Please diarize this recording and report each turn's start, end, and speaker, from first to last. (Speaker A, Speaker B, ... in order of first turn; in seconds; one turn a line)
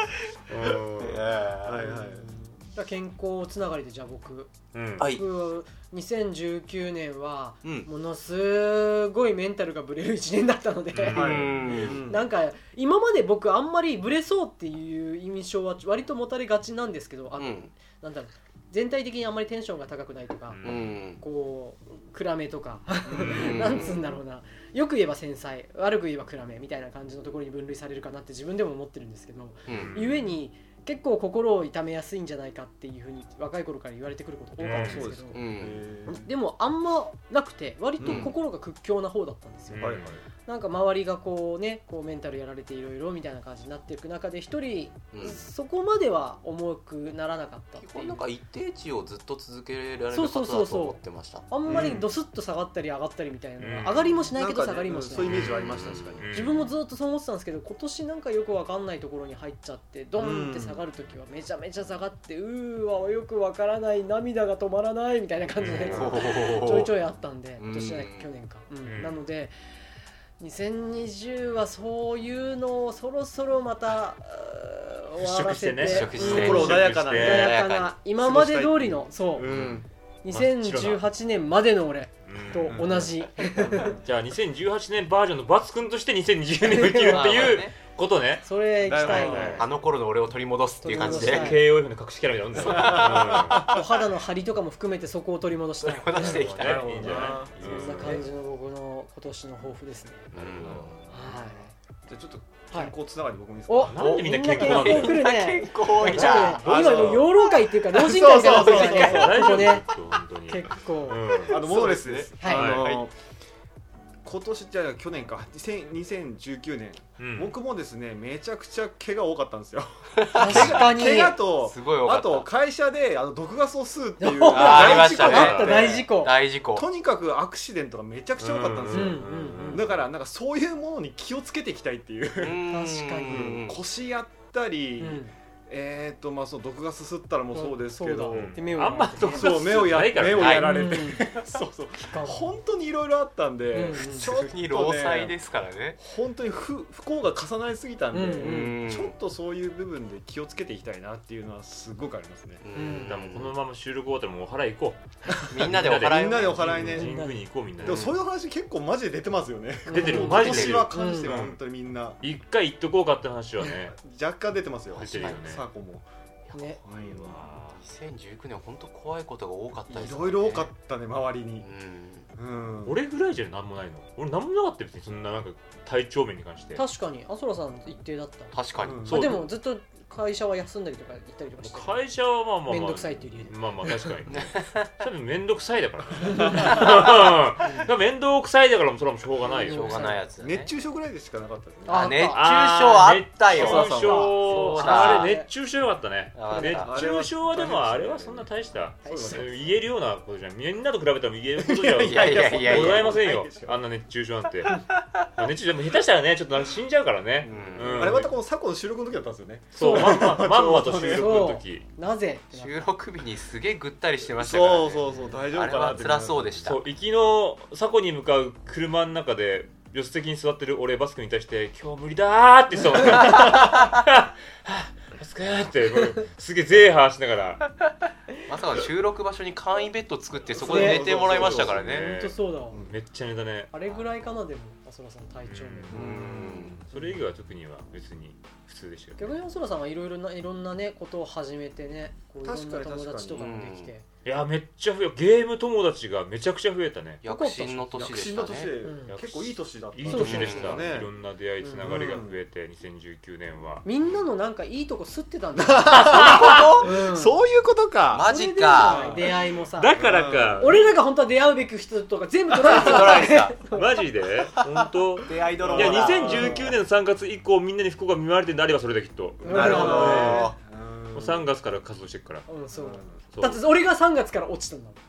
Speaker A: 0.5-1.3
Speaker B: 1.0-1.8
Speaker C: 1.6-2.3
Speaker D: 1.8-35.4
Speaker A: 4.7-5.1
Speaker A: 10.9-11.6
Speaker C: 11.1-12.2
Speaker B: 11.1-12.0
Speaker B: 17.4-17.7
Speaker A: 20.5-21.0
Speaker B: 20.6-21.2
Speaker C: 23.1-23.7
Speaker A: 23.2-23.6
Speaker B: 23.2-24.1
Speaker B: 29.7-29.9
Speaker A: 29.7-30.3
Speaker A: 34.6-35.0
Speaker C: 34.7-36.3
Speaker B: 35.0-35.8
Speaker D: 36.0-48.3
Speaker C: 38.0-38.3
Speaker B: 38.0-38.3
Speaker A: 39.7-40.2
Speaker C: 39.8-40.2
Speaker B: 45.1-45.4
Speaker B: 47.8-51.5
Speaker D: 50.1-69.5
Speaker C: 51.6-52.0
Speaker A: 53.6-54.3
Speaker C: 54.3-56.3
Speaker A: 55.2-56.7
Speaker B: 55.6-56.2
Speaker C: 60.2-60.8
Speaker A: 65.6-66.2
Speaker B: 65.8-66.9
Speaker B: 67.6-68.3
Speaker A: 68.8-69.2
Speaker D: 70.4-79.5
Speaker A: 75.2-77.5
Speaker B: 75.8-77.9
Speaker C: 76.2-77.5
Speaker C: 78.2-79.8
Speaker B: 79.4-79.8
Speaker D: 80.2-84.0
Speaker A: 80.3-81.0
Speaker A: 82.2-82.9
Speaker C: 82.7-84.0
Speaker A: 84.0-88.5
Speaker D: 86.6-87.6
Speaker B: 86.7-87.8
Speaker D: 88.4-89.6
Speaker C: 88.8-89.7
Speaker A: 89.0-89.6
Speaker B: 89.5-91.6
Speaker D: 90.8-91.6
Speaker A: 91.0-93.8
Speaker B: 92.5-93.6
Speaker C: 92.6-93.8
Speaker D: 93.5-100.3
Speaker B: 95.8-97.3
Speaker A: 96.1-98.2
Speaker C: 96.6-98.2
Speaker A: 100.3-100.9
Speaker B: 100.3-101.1
Speaker C: 100.6-100.9
Speaker D: 101.1-101.7
Speaker C: 102.1-104.0
Speaker D: 103.7-109.8
Speaker A: 103.8-105.3
Speaker B: 104.0-107.1
Speaker A: 106.0-107.1
Speaker C: 106.2-109.8
Speaker B: 108.5-108.8
Speaker A: 108.7-111.6
Speaker D: 110.5-111.4
Speaker B: 111.5-113.1
Speaker C: 111.5-113.1
Speaker D: 112.4-112.7
Speaker A: 112.4-112.9
Speaker C: 114.2-126.1
Speaker A: 117.2-117.5
Speaker B: 120.3-120.7
Speaker D: 120.3-121.4
Speaker A: 120.4-121.0
Speaker B: 121.3-122.5
Speaker D: 124.2-126.3
Speaker B: 124.5-126.8
Speaker A: 125.3-125.8
Speaker C: 126.7-132.6
Speaker A: 128.4-130.1
Speaker D: 128.9-129.9
Speaker B: 132.4-133.8
Speaker D: 132.7-133.6
Speaker C: 133.3-138.6
Speaker D: 135.0-135.3
Speaker D: 137.5-139.5
Speaker A: 138.3-140.9
Speaker C: 139.2-145.3
Speaker B: 140.3-140.7
Speaker D: 140.5-141.3
Speaker D: 141.9-142.6
Speaker D: 143.7-144.3
Speaker B: 143.9-146.0
Speaker C: 146.0-152.6
Speaker D: 148.1-148.8
Speaker B: 148.4-149.2
Speaker B: 152.6-153.6
Speaker D: 152.7-153.2
Speaker A: 152.9-155.0
Speaker B: 155.5-156.9
Speaker A: 155.6-158.1
Speaker C: 156.0-157.2
Speaker D: 156.8-157.4
Speaker C: 157.8-162.2
Speaker B: 157.8-158.1
Speaker D: 159.9-161.3
Speaker A: 159.9-161.6
Speaker B: 160.2-160.9
Speaker A: 162.2-163.9
Speaker C: 163.8-166.0
Speaker A: 164.9-165.6
Speaker B: 165.0-165.4
Speaker A: 166.5-167.8
Speaker D: 166.5-166.8
Speaker C: 166.8-167.4
Speaker B: 167.8-170.7
Speaker C: 169.9-171.7
Speaker B: 171.6-172.3
Speaker C: 172.4-173.0
Speaker A: 172.8-176.8
Speaker D: 176.7-182.1
Speaker B: 178.5-179.1
Speaker C: 178.8-179.1
Speaker A: 179.0-179.5
Speaker A: 181.6-190.2
Speaker D: 182.6-183.6
Speaker B: 184.3-184.9
Speaker B: 186.4-186.8
Speaker D: 187.6-187.9
Speaker D: 189.4-190.3
Speaker B: 189.6-190.7
Speaker C: 190.4-192.1
Speaker D: 191.8-192.5
Speaker B: 191.9-195.3
Speaker A: 192.3-204.7
Speaker C: 193.5-194.7
Speaker D: 193.6-195.5
Speaker B: 196.3-196.9
Speaker D: 196.5-196.8
Speaker C: 196.8-199.7
Speaker D: 199.0-199.6
Speaker C: 201.6-203.8
Speaker B: 202.0-203.2
Speaker A: 205.3-208.4
Speaker B: 207.4-208.2
Speaker C: 207.9-211.6
Speaker A: 209.7-211.8
Speaker D: 209.8-210.4
Speaker D: 210.9-212.9
Speaker B: 212.5-216.8
Speaker C: 214.3-216.7
Speaker A: 216.6-227.7
Speaker B: 228.4-232.1
Speaker C: 230.5-231.8
Speaker D: 230.7-231.2
Speaker A: 231.3-232.3
Speaker D: 231.9-232.8
Speaker A: 232.9-233.7
Speaker D: 233.7-236.0
Speaker A: 235.4-236.1
Speaker C: 235.9-237.2
Speaker B: 235.9-236.8
Speaker A: 236.9-239.4
Speaker D: 239.2-244.0
Speaker C: 242.4-243.7
Speaker B: 243.3-243.9
Speaker A: 244.2-247.2
Speaker B: 247.2-248.8
Speaker D: 247.2-247.9
Speaker C: 247.9-251.1
Speaker D: 248.8-249.1
Speaker A: 249.1-253.8
Speaker D: 250.1-250.7
Speaker B: 250.1-250.8
Speaker D: 251.6-252.2
Speaker C: 251.8-252.4
Speaker D: 253.8-257.4
Speaker C: 255.6-259.4
Speaker B: 256.1-256.9
Speaker B: 258.1-259.2
Speaker D: 258.3-260.0
Speaker A: 259.8-260.9
Speaker C: 260.0-260.7
Speaker D: 260.6-263.9
Speaker B: 262.5-263.6
Speaker A: 263.6-270.5
Speaker B: 265.2-266.7
Speaker C: 265.6-266.7
Speaker D: 269.4-270.4
Speaker B: 269.5-270.6
Speaker C: 269.5-271.5
Speaker A: 271.1-272.5
Speaker D: 272.5-275.0
Speaker C: 272.7-273.1
Speaker A: 273.3-273.6